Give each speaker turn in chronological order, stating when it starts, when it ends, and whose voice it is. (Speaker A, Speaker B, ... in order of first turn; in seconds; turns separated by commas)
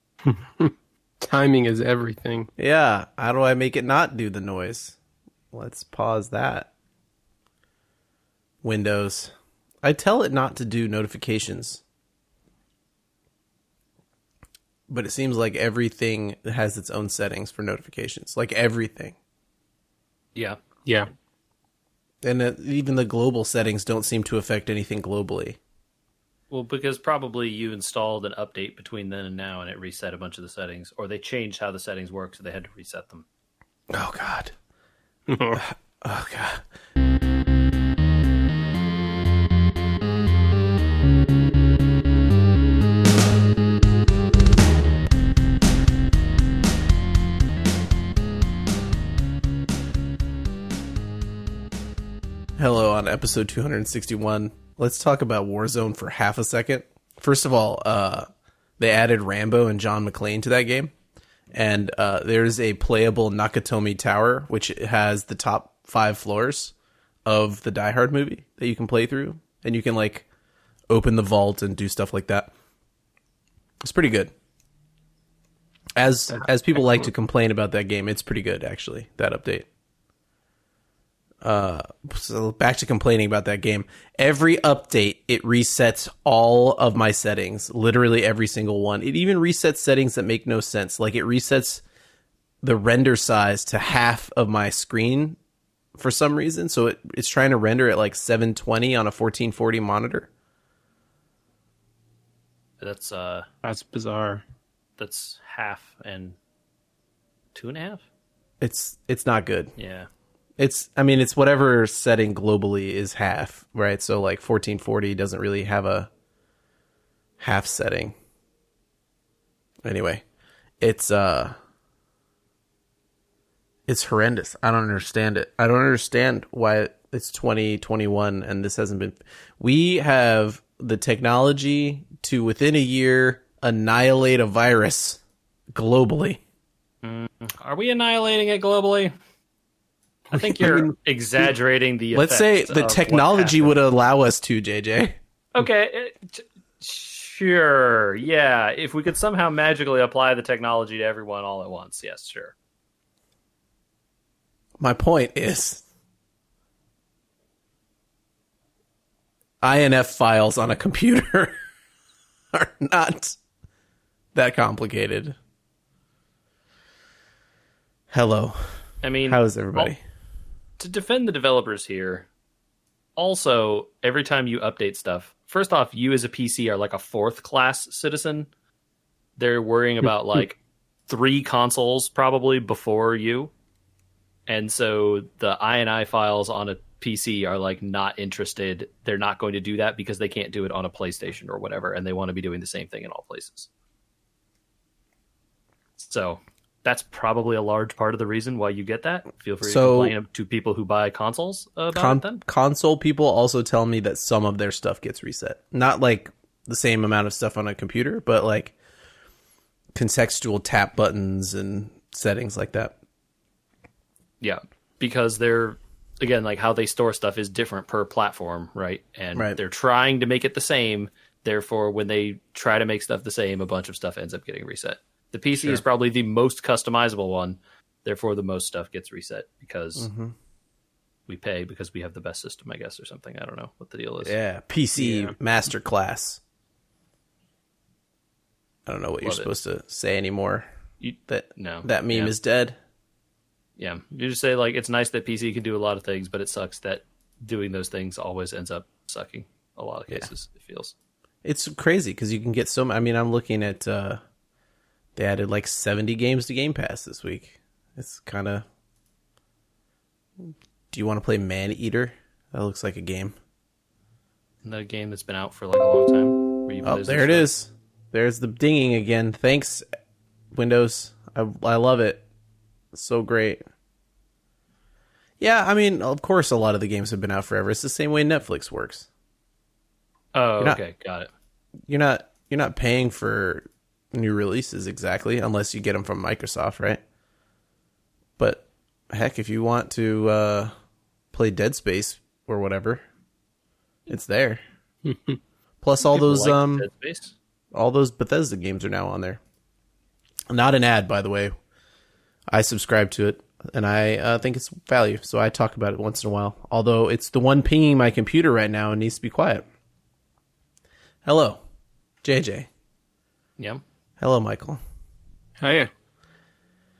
Speaker A: 0.2-2.5, Speaker B: 2.6-5.0, Speaker B: 5.5-6.7, Speaker B: 8.6-11.8, Speaker B: 14.9-19.1, Speaker B: 22.2-25.6, Speaker C: 26.5-33.2, Speaker B: 33.9-34.5, Speaker A: 35.3-35.6, Speaker B: 35.5-36.6, Speaker B: 52.6-58.3, Speaker B: 58.8-60.9, Speaker B: 61.5-66.7, Speaker B: 67.2-70.2, Speaker B: 70.9-72.5, Speaker B: 73.8-74.3, Speaker B: 76.0-79.7, Speaker B: 81.4-91.8, Speaker B: 92.6-95.4, Speaker B: 96.0-100.3, Speaker C: 102.8-103.5, Speaker A: 103.6-104.4, Speaker C: 105.0-106.3, Speaker C: 107.5-108.0, Speaker B: 108.6-109.7, Speaker C: 109.8-110.1, Speaker B: 110.6-116.1, Speaker B: 117.4-118.2, Speaker B: 119.8-120.2, Speaker B: 120.8-121.5, Speaker B: 123.9-135.2, Speaker B: 135.7-136.4, Speaker C: 137.0-139.1, Speaker C: 140.3-143.7, Speaker A: 140.3-140.9, Speaker B: 142.1-145.2, Speaker C: 145.5-152.5, Speaker B: 154.8-155.8, Speaker B: 159.6-161.5, Speaker B: 162.5-163.4, Speaker B: 164.3-165.4, Speaker B: 168.1-170.0, Speaker C: 169.0-169.9, Speaker C: 170.8-172.3, Speaker C: 173.2-178.5, Speaker C: 179.4-180.6, Speaker C: 181.1-183.5, Speaker C: 184.5-193.7, Speaker C: 196.0-202.4, Speaker B: 199.6-200.2, Speaker B: 201.9-208.7, Speaker B: 209.9-212.9, Speaker C: 214.4-230.1, Speaker B: 230.0-230.3, Speaker C: 231.3-234.3, Speaker B: 234.2-236.4, Speaker A: 235.0-235.3, Speaker B: 238.8-240.7, Speaker C: 239.2-239.5, Speaker C: 241.0-242.3, Speaker B: 241.3-242.8, Speaker C: 243.8-250.9, Speaker B: 251.4-254.2, Speaker B: 255.2-258.6, Speaker B: 260.4-263.4, Speaker C: 264.6-267.4, Speaker B: 266.8-269.8, Speaker B: 270.5-272.2, Speaker B: 272.9-273.6, Speaker B: 275.4-279.1, Speaker C: 280.3-281.3, Speaker B: 281.9-287.0, Speaker B: 288.4-290.7, Speaker B: 291.3-293.0, Speaker B: 294.1-294.6, Speaker A: 295.0-295.4, Speaker B: 295.8-296.9, Speaker C: 296.1-297.3, Speaker B: 297.7-299.4, Speaker B: 300.5-301.5, Speaker B: 302.5-309.6, Speaker B: 311.2-311.6, Speaker B: 312.2-312.7, Speaker B: 314.2-314.8, Speaker A: 315.6-315.9